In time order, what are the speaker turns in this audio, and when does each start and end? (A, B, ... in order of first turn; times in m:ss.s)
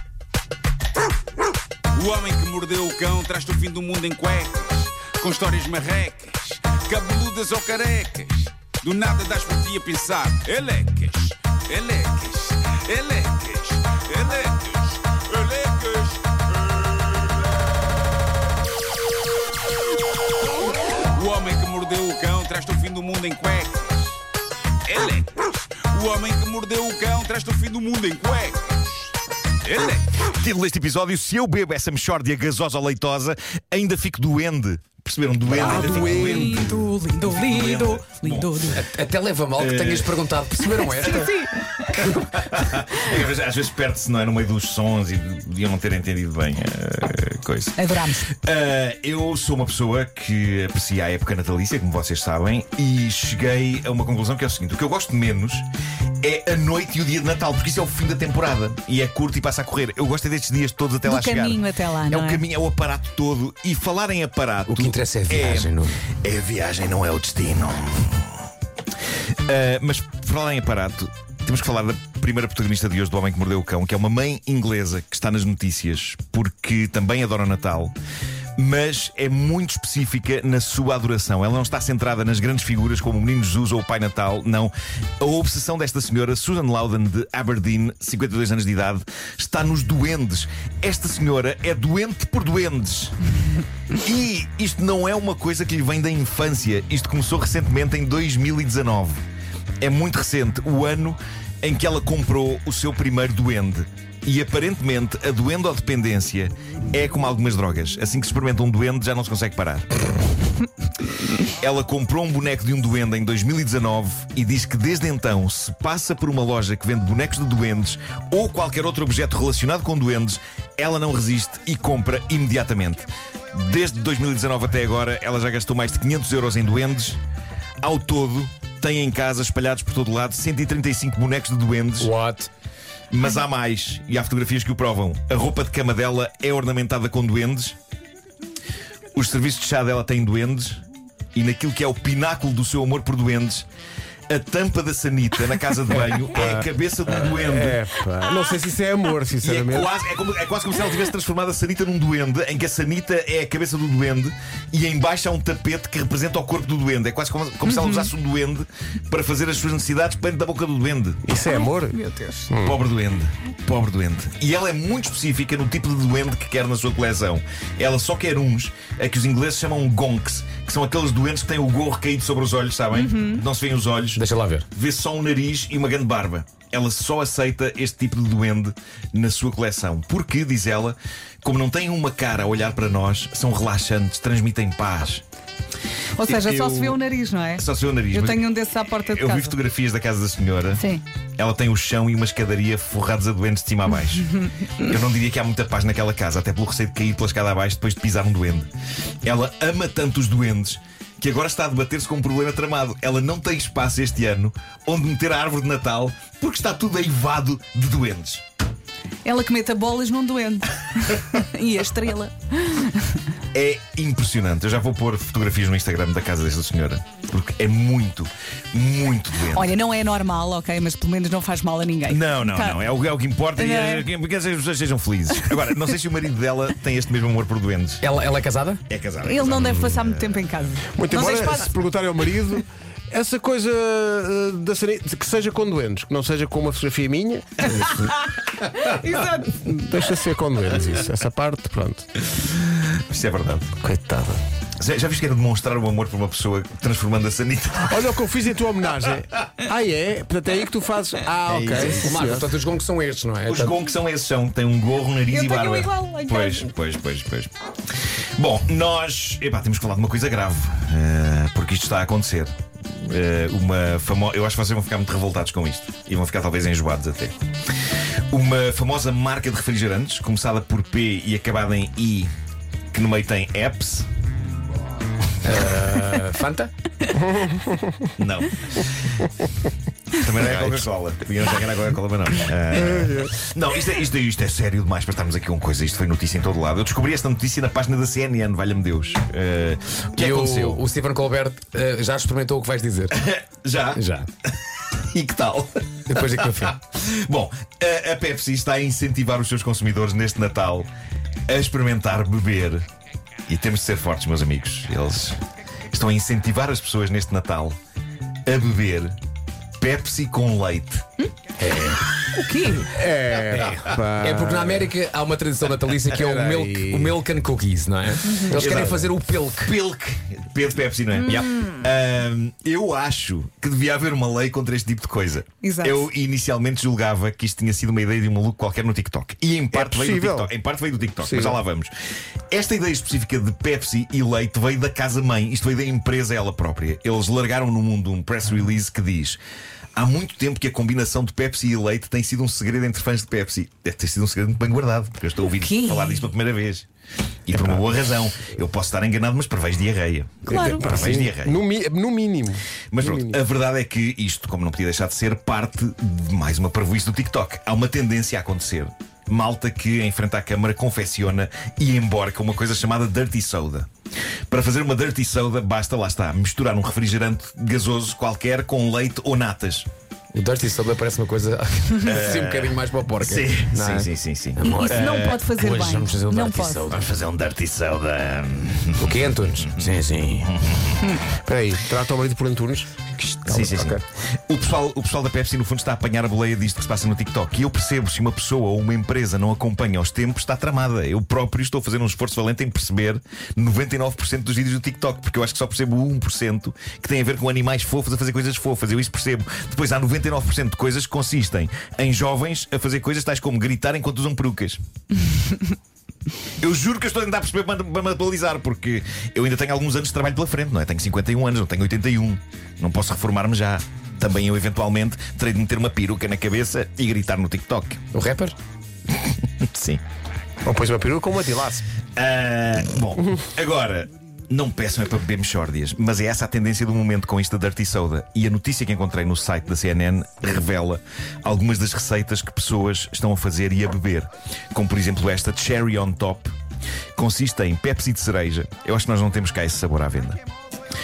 0:01.9-0:17.5 A
0:20.9-0:24.2 A
0:24.8-0:29.1 A
0:29.6-0:30.3 A
0:30.2-0:38.8 B
0:35.6-0:36.7 C
0:35.6-0:38.8 D
0:38.7-0:41.3 E
0:39.6-0:40.6 B
0:40.8-0:42.1 D
0:42.0-0:55.7 B
0:47.8-0:48.3 D
0:56.2-1:08.4 B
1:01.0-1:02.4 D
1:04.7-1:06.0 E
1:09.5-1:18.0 B
1:18.6-1:33.2 B
1:34.0-1:39.2 B
1:39.8-1:49.9 B
1:51.4-2:07.2 B
2:07.8-2:12.1 B
2:12.0-2:12.5 E
2:13.1-2:17.8 B
2:19.2-2:20.8 B
2:21.4-2:23.7 B
2:24.3-2:27.9 B
2:26.1-2:26.6 C
2:27.2-2:29.9 C
2:29.4-2:41.2 B
2:37.6-2:38.1 D
2:41.2-2:42.8 C
2:41.4-2:42.5 D
2:42.6-3:05.2 B
2:52.9-2:53.4 D
2:54.2-2:54.7 E
3:06.2-3:09.6 D
3:06.3-3:07.0 B
3:07.6-3:08.4 B
3:09.0-3:10.8 B
3:10.8-3:11.0 D
3:11.4-3:18.7 B
3:19.2-3:28.4 B
3:29.2-3:33.2 D
3:33.5-3:39.8 B
3:39.4-3:42.8 D
3:42.1-3:48.0 B
3:43.6-3:44.1 D
3:48.0-3:48.8 E
3:48.9-3:50.4 B
3:49.2-3:51.8 D
3:51.0-3:57.7 C
3:57.8-3:58.1 D
3:58.8-4:00.0 D
3:59.8-4:02.1 C
4:02.4-4:03.8 B
4:03.8-4:04.4 C
4:04.8-4:08.1 B
4:07.9-4:12.5 C
4:11.5-4:12.1 B
4:11.7-4:13.8 E
4:13.5-4:17.5 B
4:15.3-4:16.7 D
4:18.4-4:27.4 B
4:28.3-4:32.3 B
4:32.9-4:34.1 B
4:35.4-4:36.7 E
4:37.2-4:37.8 C
4:38.2-4:39.2 B
4:40.2-4:50.8 B
4:42.8-4:43.3 C
4:50.2-4:53.2 E
4:53.1-4:54.0 B
4:54.0-4:54.3 E
4:55.1-5:00.9 B
4:56.1-4:56.8 E
5:01.5-5:02.8 B
5:03.5-5:05.4 B
5:05.9-5:07.8 B
5:08.5-5:09.1 B
5:09.8-5:11.1 B
5:11.6-5:12.0 E
5:12.3-5:12.9 D
5:12.9-5:14.9 C
5:13.5-5:19.8 E
5:16.1-5:17.2 C
5:18.3-5:18.6 D
5:18.5-5:19.0 C
5:18.5-5:31.9 B
5:25.6-5:26.0 D
5:29.7-5:30.5 C
5:31.2-5:31.6 C
5:32.5-5:39.4 B
5:40.0-5:46.9 B
5:45.6-5:46.2 D
5:47.5-5:51.6 B
5:50.5-5:51.0 D
5:50.5-5:53.4 C
5:52.9-6:03.9 B
6:04.5-6:09.9 B
6:10.3-6:17.0 E
6:12.0-6:15.5 B
6:14.6-6:17.0 D
6:16.9-6:20.0 B
6:19.0-6:20.6 E
6:20.6-6:21.2 B
6:21.3-6:22.9 C
6:23.2-6:24.0 E
6:23.5-6:44.8 B
6:46.6-6:58.0 B
6:58.1-6:58.6 E
6:59.2-7:00.0 B
7:00.6-7:01.9 C
7:02.2-7:16.5 B
7:17.2-7:20.4 B